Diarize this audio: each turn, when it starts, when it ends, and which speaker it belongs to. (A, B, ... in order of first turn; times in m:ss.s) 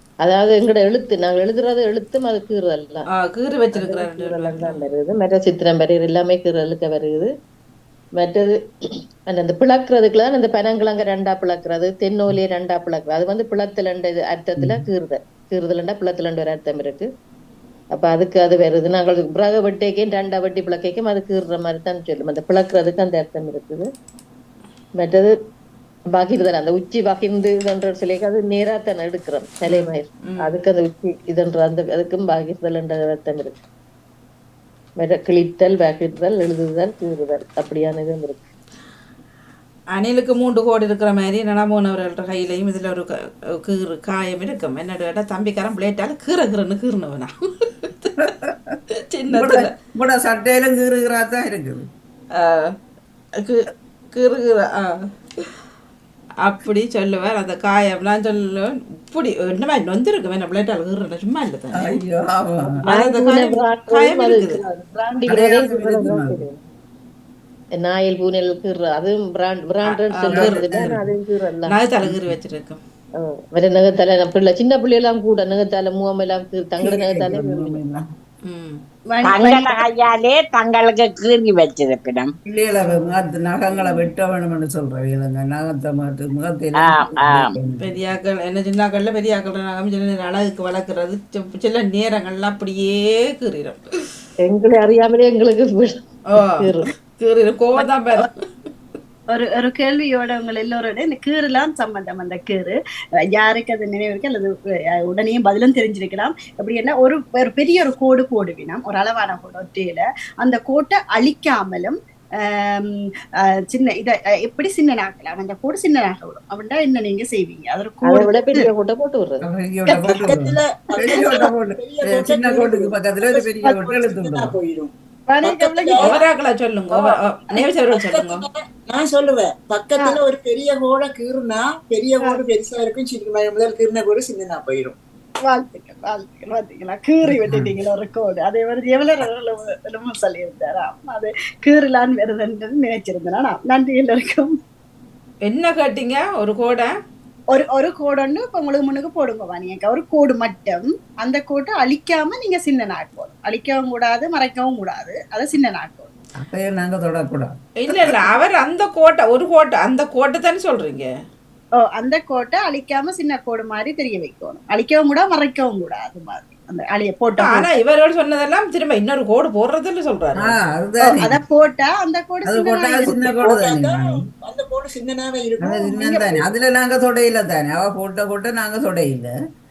0:00.2-0:03.1 A
0:03.1-0:04.9 B
0:03.7-0:07.3 A
0:08.2-0:08.6 A
0:09.3-0:17.1 A
0:14.6-0:14.8 C
0:17.9-0:23.9 A
0:25.0-0:25.3 A
0:26.1-0:33.6 A
0:29.7-0:30.6 B
0:35.0-0:38.5 A
0:39.9-0:48.3 B
0:48.2-0:51.9 C
0:49.1-0:49.7 B
0:52.3-0:52.8 B
0:53.4-0:55.5 B
0:56.4-1:02.0 B
1:01.8-1:02.8 C
1:02.6-1:06.6 A
1:02.9-1:04.6 B
1:05.3-1:06.4 C
1:07.8-1:11.8 A
1:09.9-1:10.7 B
1:10.3-1:11.1 C
1:11.7-1:12.8 B
1:12.0-1:12.3 C
1:13.2-1:17.9 A
1:16.8-1:18.0 C
1:18.5-1:18.8 B
1:19.1-1:19.8 D
1:19.2-1:22.3 E
1:22.5-1:27.9 C
1:22.8-1:23.1 B
1:26.8-1:27.5 E
1:27.8-1:33.8 B
1:34.5-1:36.9 A
1:36.3-1:36.7 B
1:37.2-1:38.4 B
1:39.3-1:42.8 D
1:43.3-1:53.1 D
1:53.7-1:58.7 D
1:58.1-1:59.4 A
1:59.4-2:04.5 C
1:59.9-2:04.9 F
2:01.0-2:01.4 D
2:05.3-2:06.2 D
2:05.4-2:06.1 F
2:06.0-2:08.4 B
2:07.9-2:15.0 F
2:15.4-2:24.6 D
2:17.3-2:17.7 C
2:25.5-2:26.9 B
2:27.5-2:36.1 D
2:36.4-2:37.6 C
2:37.8-2:41.1 B
2:41.8-2:47.7 D
2:47.4-2:50.6 B
2:50.4-2:51.4 C
2:51.0-2:53.4 D
2:52.5-2:54.2 C
2:53.1-2:56.4 F
2:55.6-2:59.3 C